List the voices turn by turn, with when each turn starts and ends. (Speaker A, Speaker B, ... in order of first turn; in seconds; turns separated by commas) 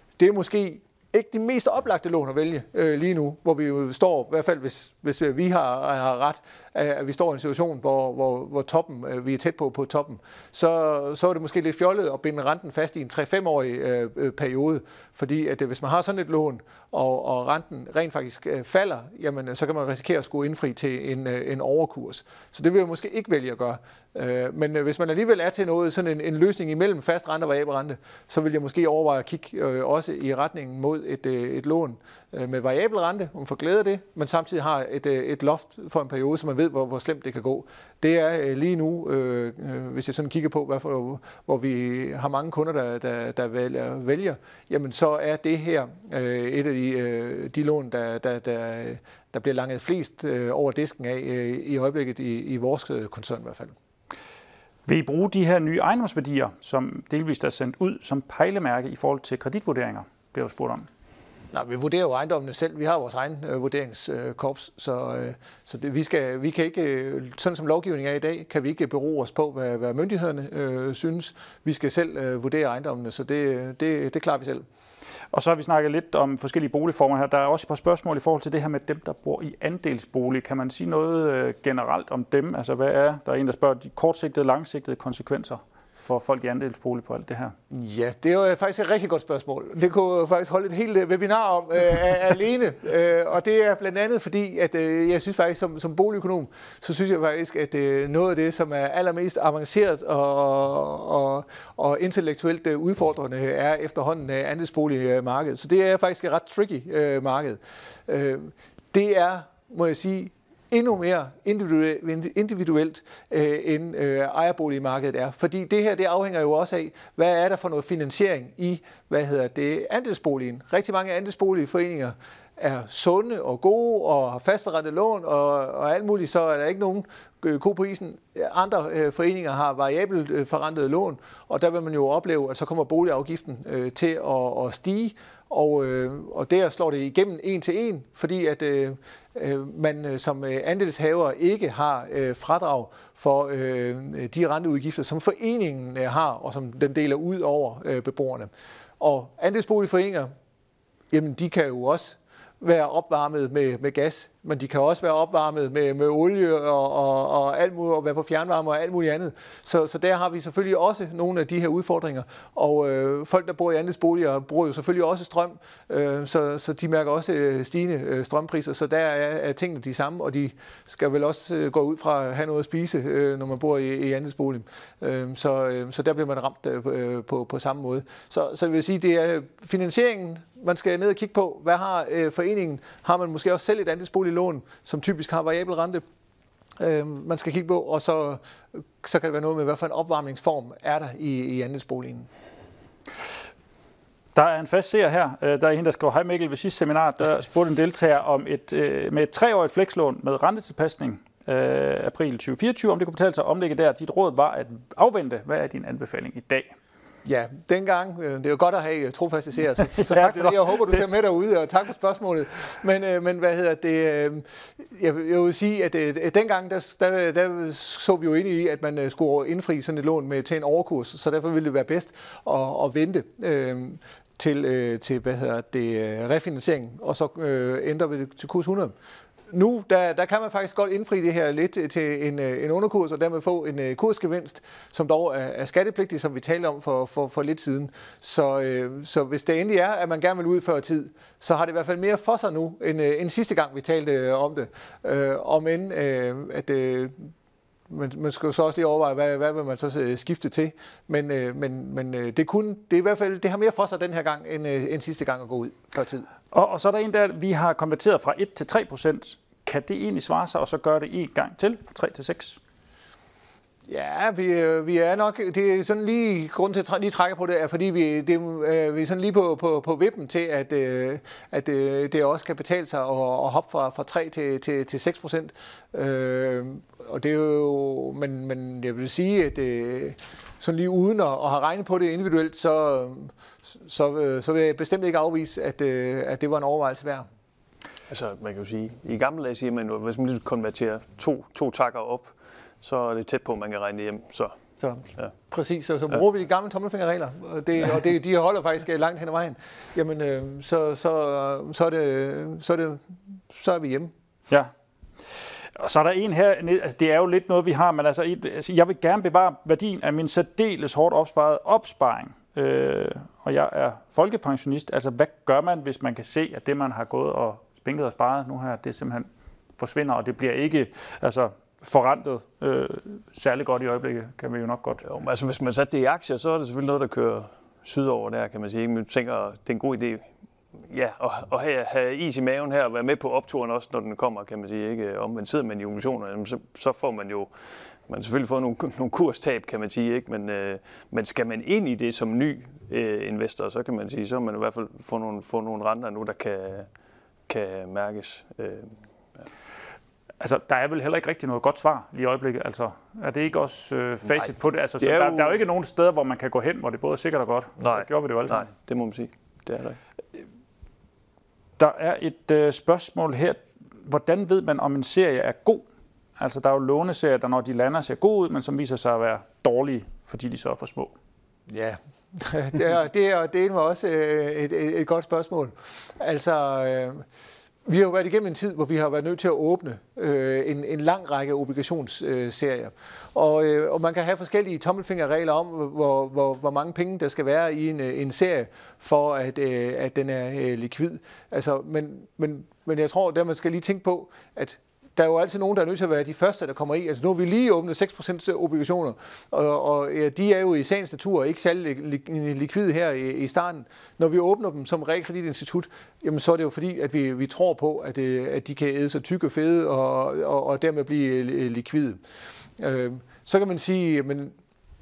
Speaker A: 0.2-53.8, Speaker B: 54.9-60.9, Speaker A: 61.5-74.6, Speaker B: 75.3-87.5, Speaker A: 87.7-150.3, Speaker A: 151.1-186.0, Speaker A: 186.8-192.3, Speaker B: 194.3-206.8, Speaker A: 207.2-228.9, Speaker A: 229.5-247.3, Speaker A: 247.9-256.3, Speaker B: 256.5-262.6, Speaker A: 263.9-287.3, Speaker C: 288.1-294.6, Speaker A: 294.8-304.1, Speaker B: 305.3-319.3, Speaker B: 319.8-325.0, Speaker C: 325.0-330.2, Speaker C: 330.9-337.5, Speaker C: 338.1-346.9, Speaker C: 347.5-349.4, Speaker B: 350.4-358.7, Speaker C: 355.0-355.6, Speaker C: 357.8-360.0, Speaker B: 361.8-365.9, Speaker B: 366.4-371.1, Speaker A: 371.7-377.2, Speaker A: 377.9-412.2, Speaker A: 412.8-414.6